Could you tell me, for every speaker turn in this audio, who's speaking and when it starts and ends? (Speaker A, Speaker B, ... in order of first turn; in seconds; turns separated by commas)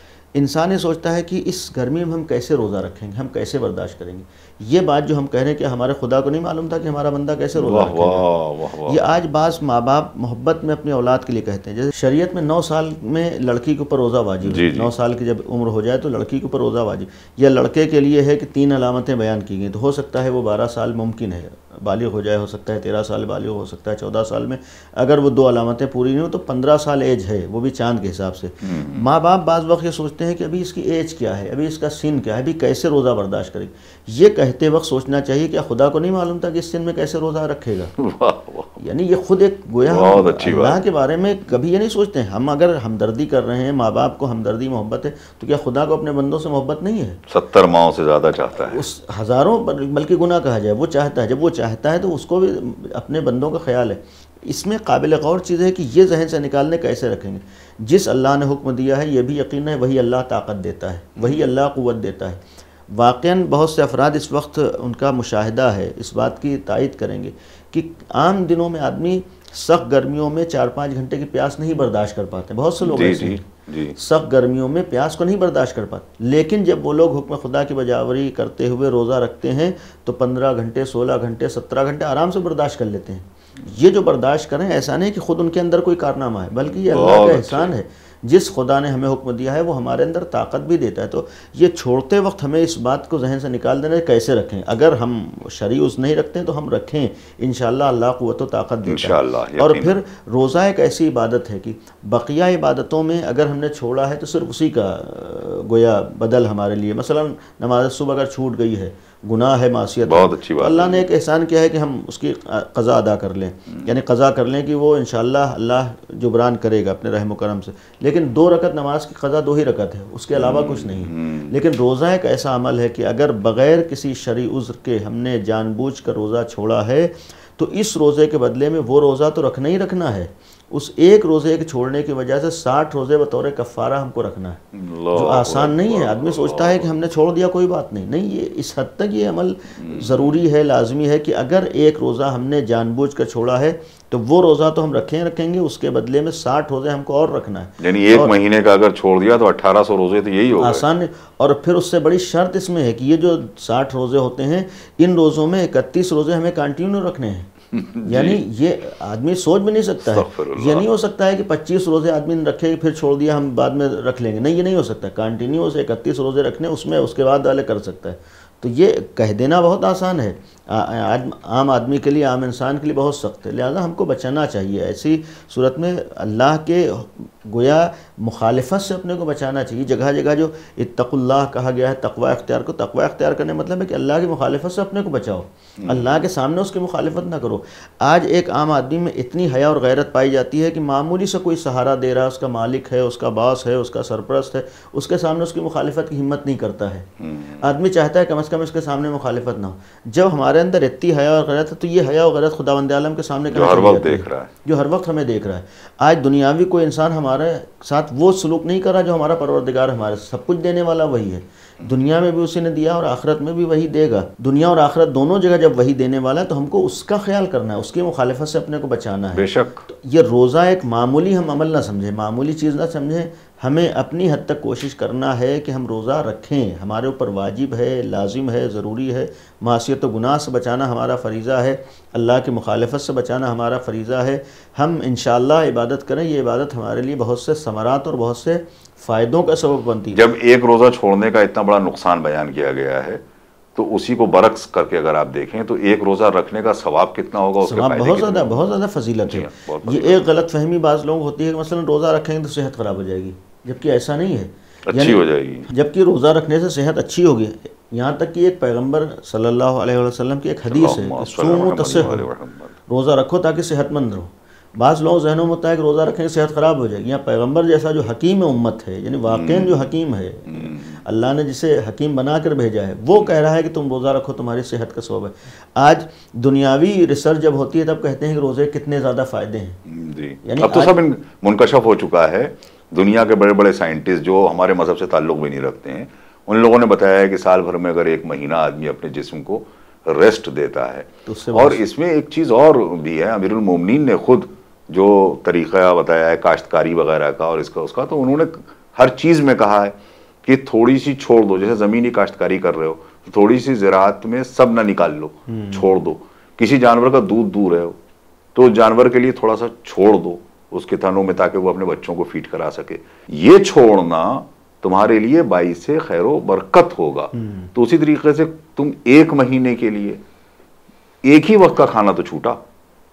Speaker A: 0.3-8.3, Speaker B: 7.6-9.0, Speaker A: 8.8-38.0, Speaker B: 14.5-14.9, Speaker B: 28.6-29.0, Speaker B: 38.0-38.8, Speaker A: 38.8-47.2, Speaker B: 39.9-40.8, Speaker B: 47.3-48.9, Speaker A: 48.6-62.4, Speaker B: 61.2-61.5, Speaker A: 62.9-73.4, Speaker B: 72.8-74.0, Speaker A: 74.0-134.6, Speaker B: 86.6-87.7, Speaker B: 98.9-100.0, Speaker B: 110.1-111.1, Speaker B: 120.3-121.5, Speaker B: 134.7-136.9, Speaker A: 135.1-148.3, Speaker B: 139.8-140.4, Speaker B: 147.8-150.8, Speaker A: 150.6-157.5, Speaker B: 157.7-158.4, Speaker A: 158.1-240.2, Speaker B: 160.0-160.9, Speaker B: 185.8-186.1, Speaker B: 197.2-197.7, Speaker B: 203.5-204.5, Speaker B: 219.3-219.8, Speaker B: 240.1-243.2, Speaker B: 243.8-248.6, Speaker A: 247.6-262.3, Speaker B: 249.2-250.3, Speaker B: 254.9-255.7, Speaker B: 260.7-262.7, Speaker A: 262.9-279.8, Speaker B: 269.3-269.9, Speaker B: 270.5-271.0, Speaker B: 279.9-308.0, Speaker A: 280.4-280.9, Speaker A: 291.3-291.8, Speaker A: 305.5-305.9, Speaker B: 308.5-320.2, Speaker A: 317.3-317.7, Speaker B: 321.2-322.6